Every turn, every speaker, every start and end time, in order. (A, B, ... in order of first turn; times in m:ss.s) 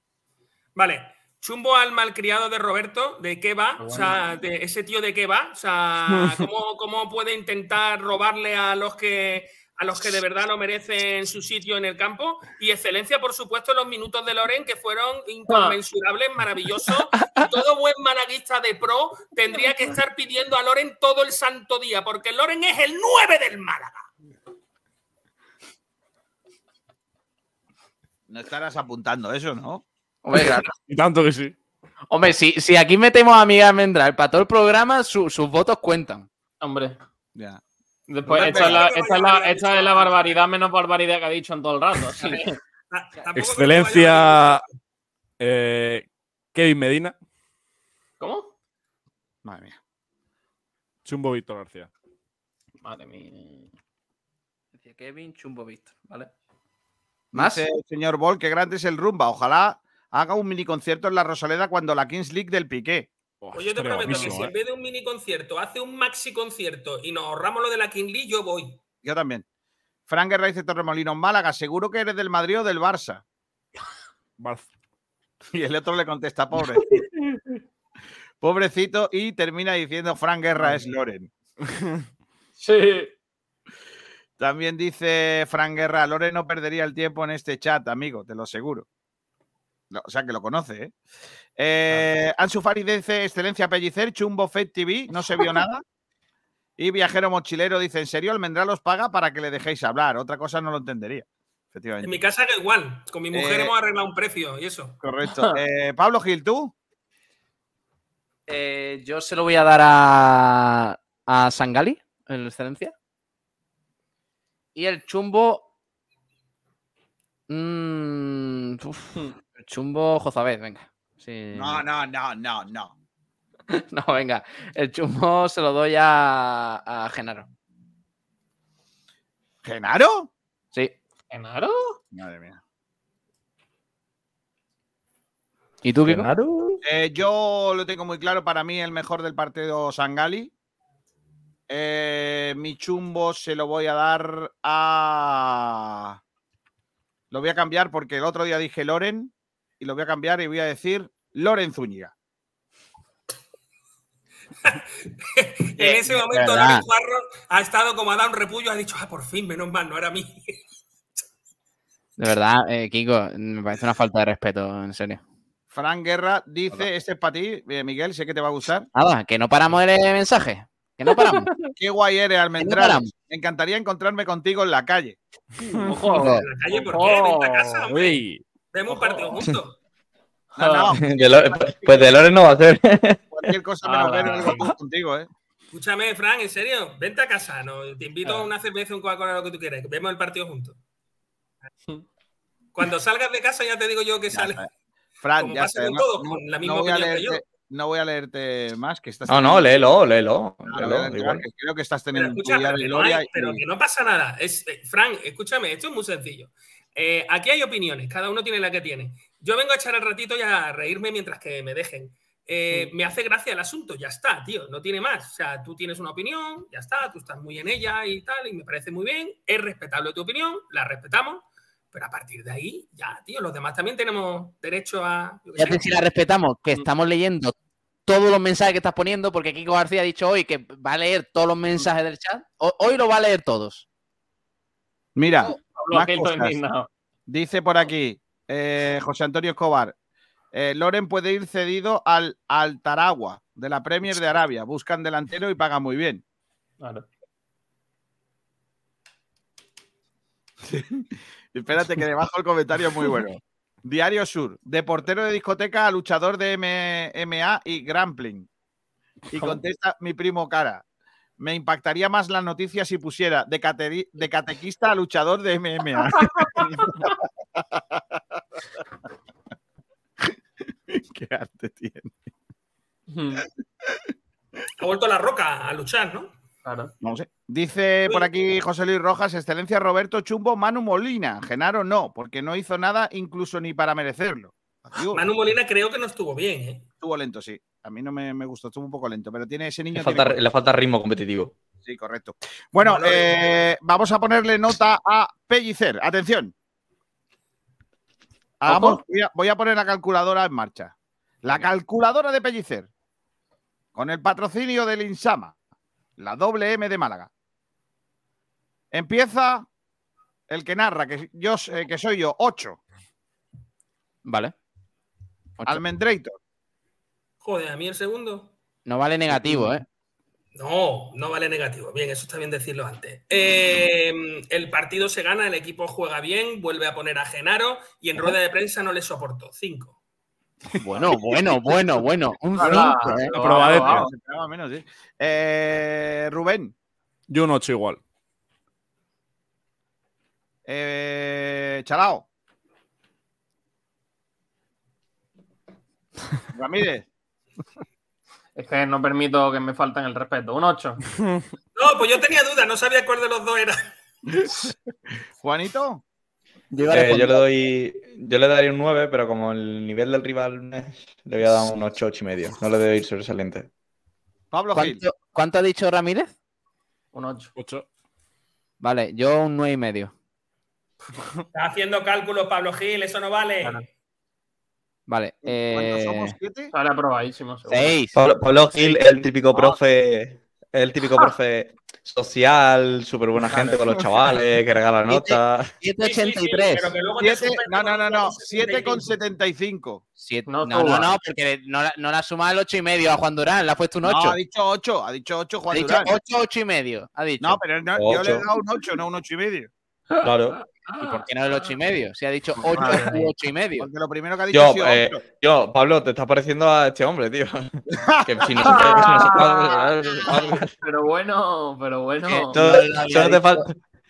0:00.8-0:24.0 A
0:03.8-0:04.2 B
0:15.5-0:15.8 B
0:28.3-0:29.8 C
0:30.2-0:30.7 D
0:30.8-0:31.5 E
0:32.1-0:36.3 D
0:36.6-0:37.0 B
0:37.3-0:37.6 C
0:38.1-0:42.6 B
0:38.2-0:38.8 C
0:38.3-0:40.4 A
0:42.2-0:44.7 A
0:43.3-0:44.6 E
0:45.4-0:47.1 E
0:48.2-0:48.5 B
0:49.4-0:49.8 C
0:51.0-0:51.9 E
0:52.8-0:53.7 B
0:54.8-0:56.3 D
0:57.3-1:03.1 C
0:57.3-0:57.6 D
1:03.4-1:04.5 E
1:03.5-1:08.8 A
1:09.0-1:09.4 C
1:10.1-1:13.2 C
1:14.4-1:14.7 E
1:15.4-1:17.0 C
1:18.4-1:21.3 C
1:22.6-1:23.1 B
1:24.4-1:28.9 C
1:29.9-1:31.0 C
1:31.6-1:35.8 C
1:36.8-1:42.1 C
1:42.0-1:45.0 A
1:43.3-1:43.7 C
1:45.0-1:46.7 C
1:48.5-1:52.9 D
1:54.8-1:55.6 D
1:57.5-2:01.8 D
2:01.5-2:02.9 C
2:03.7-2:07.5 D
2:09.6-2:10.3 C
2:11.3-2:12.0 B
2:12.1-2:12.6 C
2:15.8-2:16.8 D
2:16.1-2:16.5 F
2:16.8-2:20.5 C
2:21.7-2:26.2 C
2:27.3-2:32.1 C
2:34.6-2:40.6 A
2:35.8-2:36.6 C
2:42.2-2:45.2 D
2:45.7-2:48.9 C
2:48.9-2:51.5 D
2:51.8-2:55.2 C
2:52.6-2:53.1 D
2:55.6-2:55.9 E
2:55.8-2:57.8 B
2:56.1-2:58.2 A
2:56.1-2:56.4 D
2:58.0-2:58.4 E
2:58.7-2:59.8 A
2:58.9-2:59.4 B
3:00.6-3:02.1 C
3:00.6-3:00.9 B
3:00.9-3:03.5 F
3:03.3-3:05.3 C
3:03.8-3:04.7 B
3:05.7-3:10.8 A
3:12.7-3:14.6 A
3:14.3-3:14.7 C
3:15.2-3:19.8 C
3:15.4-3:17.4 A
3:19.3-3:21.4 F
3:20.7-3:23.6 C
3:22.1-3:45.9 A
3:45.6-3:47.5 D
3:48.0-3:53.8 D
3:55.2-3:56.6 C
3:55.6-3:56.9 B
3:57.3-3:59.9 C
4:00.5-4:06.2 C
4:06.8-4:07.0 B
4:10.6-4:18.5 C
4:19.3-4:20.8 C
4:21.4-4:28.4 C
4:26.1-4:27.1 B
4:30.2-4:32.1 C
4:33.1-4:33.4 B
4:33.8-4:34.1 C
4:34.8-4:36.3 A
4:36.6-4:36.9 B
4:37.0-4:45.2 C
4:45.0-4:46.8 A
4:47.0-4:50.4 C
4:49.9-4:51.5 F
4:51.8-4:56.5 C
4:52.8-4:53.6 A
4:58.6-5:02.9 C
4:58.7-4:59.0 B
5:03.9-5:05.5 C
5:06.2-5:07.3 C
5:08.9-5:09.7 C
5:10.5-5:12.8 C
5:14.2-5:14.5 D
5:15.6-5:16.4 C
5:17.4-5:18.5 A
5:18.8-5:19.8 D
5:19.3-5:19.6 C
5:20.6-5:30.0 A
5:30.8-5:31.5 C
5:30.8-5:33.3 D
5:32.6-5:36.7 C
5:32.6-5:34.1 B
5:32.7-5:33.7 A
5:33.4-5:34.1 E
5:37.3-5:38.0 E
5:40.6-5:42.2 C
5:46.5-5:47.0 C
5:48.6-5:51.0 B
5:51.8-5:53.9 A
5:55.4-5:56.0 C
5:56.7-5:57.4 D
5:56.9-6:03.7 F
6:04.5-6:05.0 C
6:04.7-6:06.3 D
6:07.1-6:07.5 B
6:07.6-6:07.8 E
6:08.8-6:10.1 D
6:11.5-6:13.8 A
6:15.1-6:16.4 D
6:15.4-6:16.7 C
6:16.7-6:18.0 B
6:17.7-6:18.1 D
6:18.1-6:25.7 F
6:23.4-6:24.1 C
6:25.1-6:26.9 D
6:26.0-6:29.2 A
6:27.2-6:30.0 C
6:30.2-6:34.4 D
6:30.5-6:31.2 B
6:34.0-6:36.2 C
6:35.7-6:37.6 D
6:37.4-6:39.7 C
6:38.0-6:38.4 F
6:40.1-6:41.7 B
6:40.2-6:40.6 F
6:41.0-6:43.9 D
6:42.7-6:43.1 C
6:42.7-6:43.2 B
6:43.8-6:45.2 C
6:44.5-6:50.7 F
6:47.9-6:49.5 C
6:48.6-6:49.9 B
6:50.3-6:50.6 C
6:50.8-6:52.6 B
6:52.5-6:53.7 D
6:52.5-6:53.7 F